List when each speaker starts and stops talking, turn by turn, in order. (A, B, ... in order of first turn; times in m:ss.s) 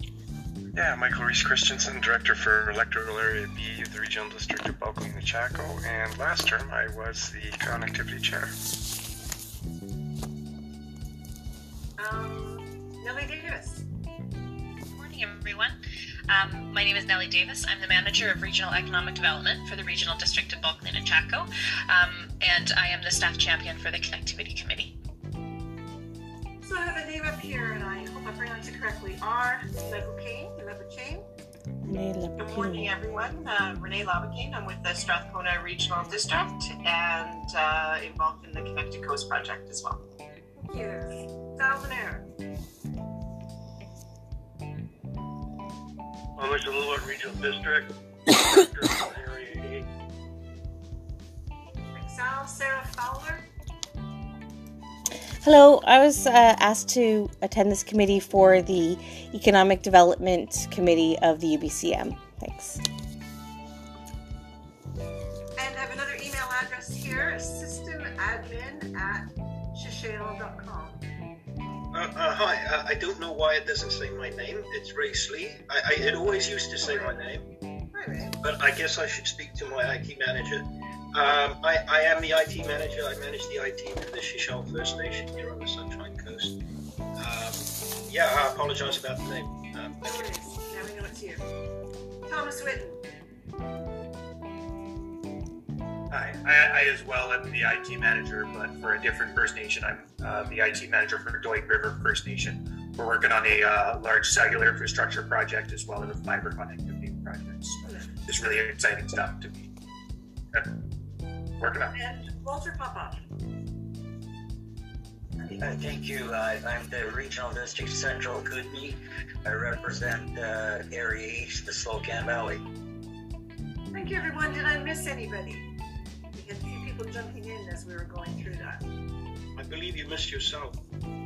0:00.7-0:08.5 A
0:12.0-0:13.8 B
0:14.9-0:15.8 C
0:16.3-0:24.9 C
0:26.6-0:31.2 B
0:31.8-0:32.9 D
0:32.4-0:40.0 E
0:40.6-0:42.2 B
0:46.4-0:49.8 F
0:51.9-0:53.4 B
0:55.4-1:02.8 D
1:05.6-1:11.0 B
1:11.9-1:17.4 G
1:16.8-1:17.2 B
1:17.9-1:18.3 B
1:18.4-1:26.5 G
1:27.2-1:30.3 G
1:30.0-1:31.4 B
1:32.3-1:33.0 B
1:36.1-1:49.7 H
1:51.6-1:51.9 H
1:51.9-1:53.2 B
1:55.6-2:02.6 I
2:03.9-2:05.7 B
2:06.3-2:08.8 B
2:09.6-2:10.8 G